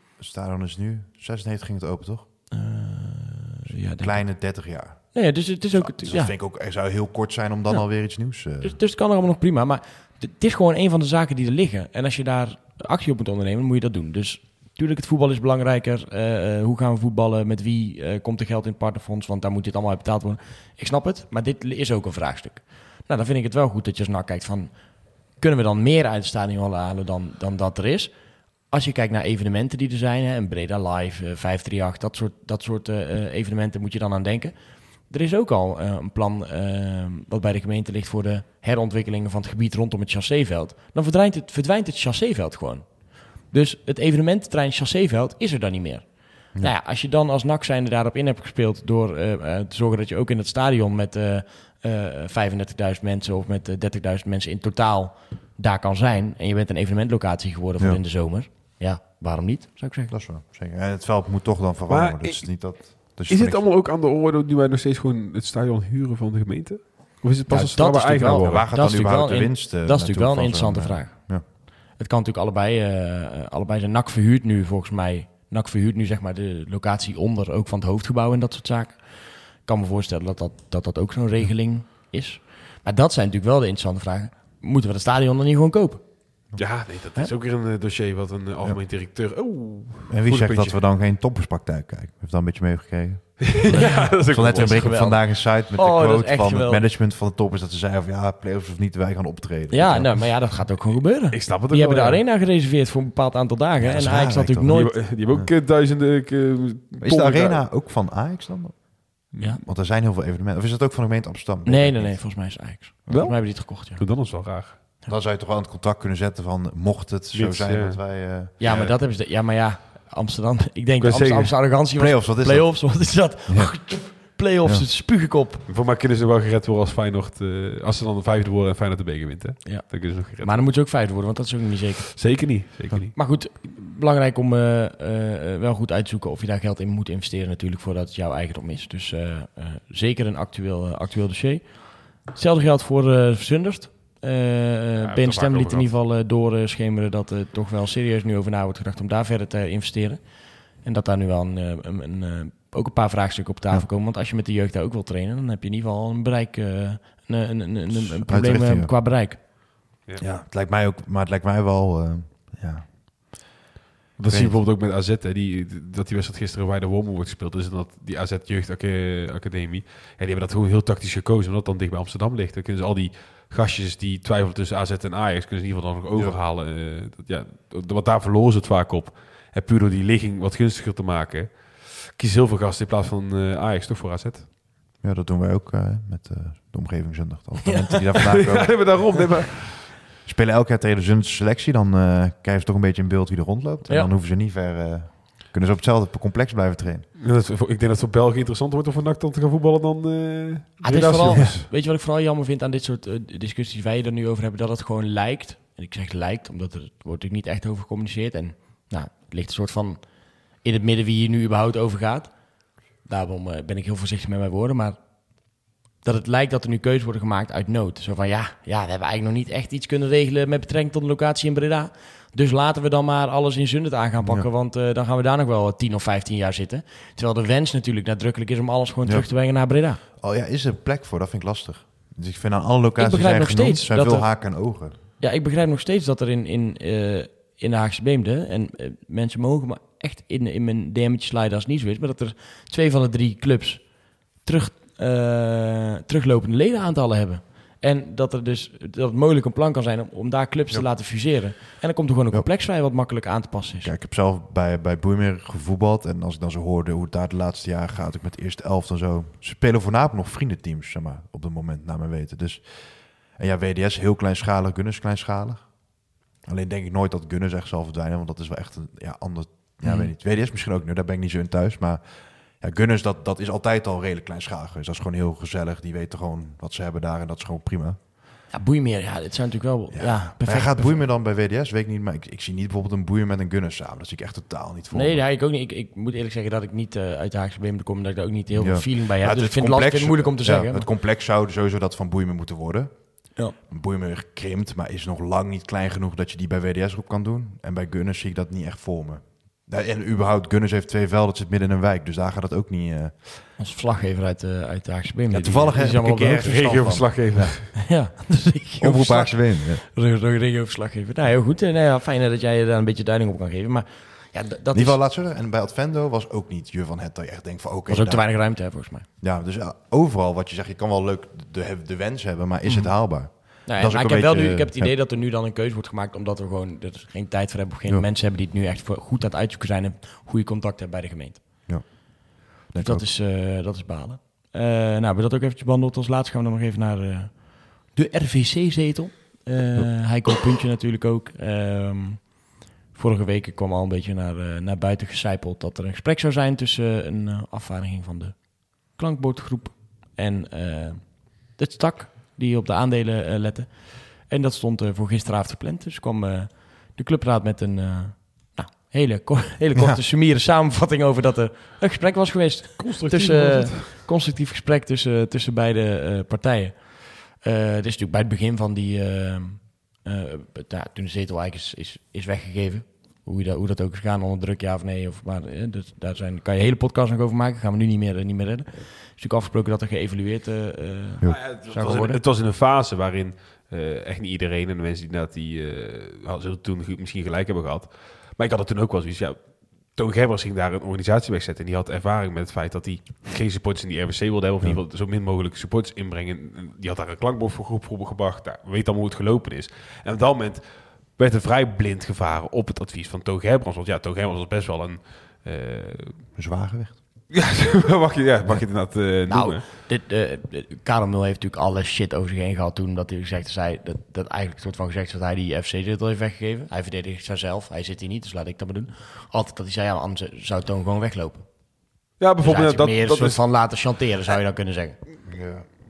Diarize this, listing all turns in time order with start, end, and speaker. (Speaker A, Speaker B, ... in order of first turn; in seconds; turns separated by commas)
Speaker A: 0.2-2.2, Speaker B: 2.5-6.3, Speaker A: 3.9-8.8, Speaker B: 7.7-60.1, Speaker A: 60.1-63.6, Speaker C: 61.9-68.6, Speaker B: 67.5-86.5, Speaker A: 68.2-71.4, Speaker C: 86.6-90.8, Speaker A: 90.1-100.5, Speaker C: 93.4-94.9, Speaker B: 93.7-96.8, Speaker B: 99.7-105.0, Speaker C: 101.3-102.2, Speaker A: 103.8-104.7, Speaker C: 104.7-107.6, Speaker A: 107.0-112.3, Speaker C: 109.3-109.6, Speaker B: 111.6-114.0, Speaker C: 113.1-114.8, Speaker A: 115.1-118.5, Speaker C: 117.3-119.0, Speaker B: 118.6-125.6, Speaker C: 121.0-121.5, Speaker A: 121.9-123.9, Speaker C: 125.7-130.7, Speaker B: 129.6-132.5, Speaker C: 132.2-133.1, Speaker B: 133.1-159.4, Speaker C: 145.0-145.9, Speaker A: 157.9-158.9, Speaker A: 160.2-163.6, Speaker C: 164.2-184.4, Speaker A: 164.3-164.6, Speaker A: 176.1-176.4, Speaker A: 185.0-197.1, Speaker C: 188.2-189.9, Speaker C: 197.2-201.6, Speaker B: 200.8-230.0, Speaker A: 201.3-201.6, Speaker A: 229.0-229.3, Speaker A: 229.9-234.9, Speaker B: 233.0-253.9, Speaker A: 250.7-251.6, Speaker A: 253.8-278.0, Speaker B: 269.8-270.1, Speaker B: 278.5-281.1, Speaker A: 279.9-285.2, Speaker B: 284.9-290.9, Speaker A: 288.6-303.5, Speaker B: 303.6-307.2, Speaker A: 305.3-307.7, Speaker C: 305.4-307.7, Speaker B: 307.8-315.0, Speaker A: 308.8-309.8, Speaker A: 314.7-318.5, Speaker B: 317.9-319.1, Speaker A: 319.2-324.9, Speaker B: 323.3-331.9, Speaker A: 331.7-333.1, Speaker B: 332.7-382.2, Speaker C: 362.8-363.9, Speaker C: 381.2-406.2, Speaker A: 406.4-407.0, Speaker C: 407.3-409.6, Speaker B: 409.2-421.8, Speaker C: 422.2-424.3, Speaker B: 422.4-425.0, Speaker A: 425.2-425.6